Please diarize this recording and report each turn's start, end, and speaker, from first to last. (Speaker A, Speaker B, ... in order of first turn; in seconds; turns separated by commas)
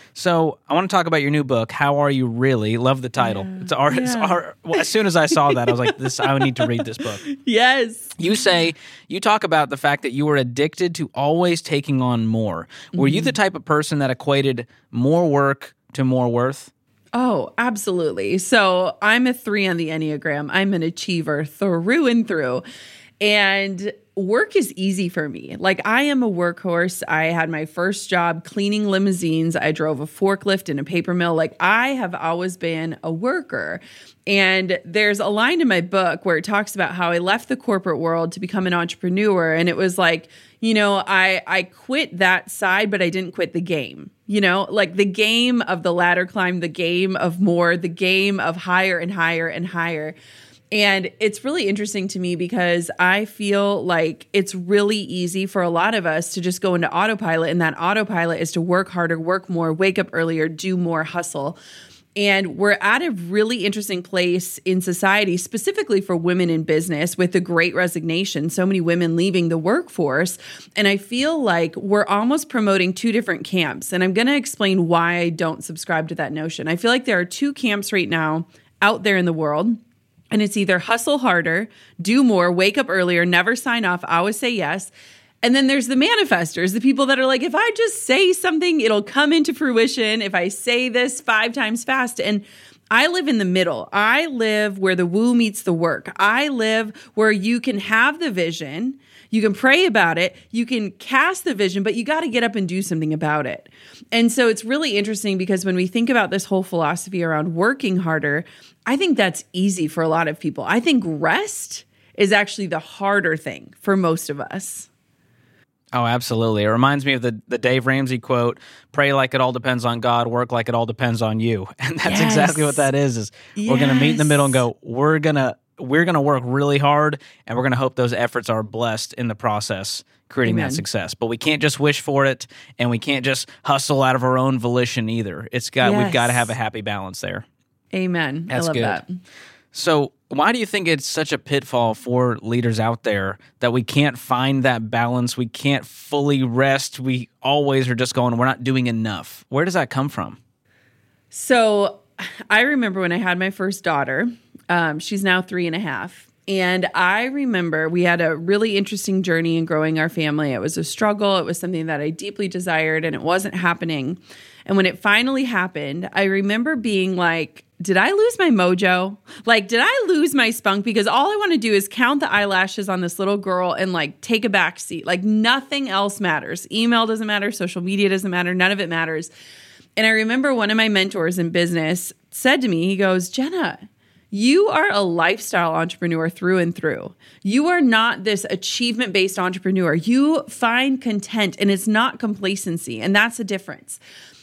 Speaker A: 0.1-7.3, Speaker B: 3.2-8.2, Speaker A: 8.2-16.7, Speaker B: 12.9-13.3, Speaker B: 17.1-22.6, Speaker B: 23.2-50.2, Speaker B: 50.7-61.6, Speaker B: 62.2-79.8, Speaker B: 80.3-114.9, Speaker A: 115.9-137.4, Speaker B: 122.0-122.8, Speaker B: 123.6-124.6, Speaker B: 130.4-130.8, Speaker B: 135.8-136.5, Speaker B: 137.9-139.1, Speaker A: 138.5-139.0, Speaker A: 139.7-150.4, Speaker B: 151.3-179.3, Speaker B: 180.0-194.0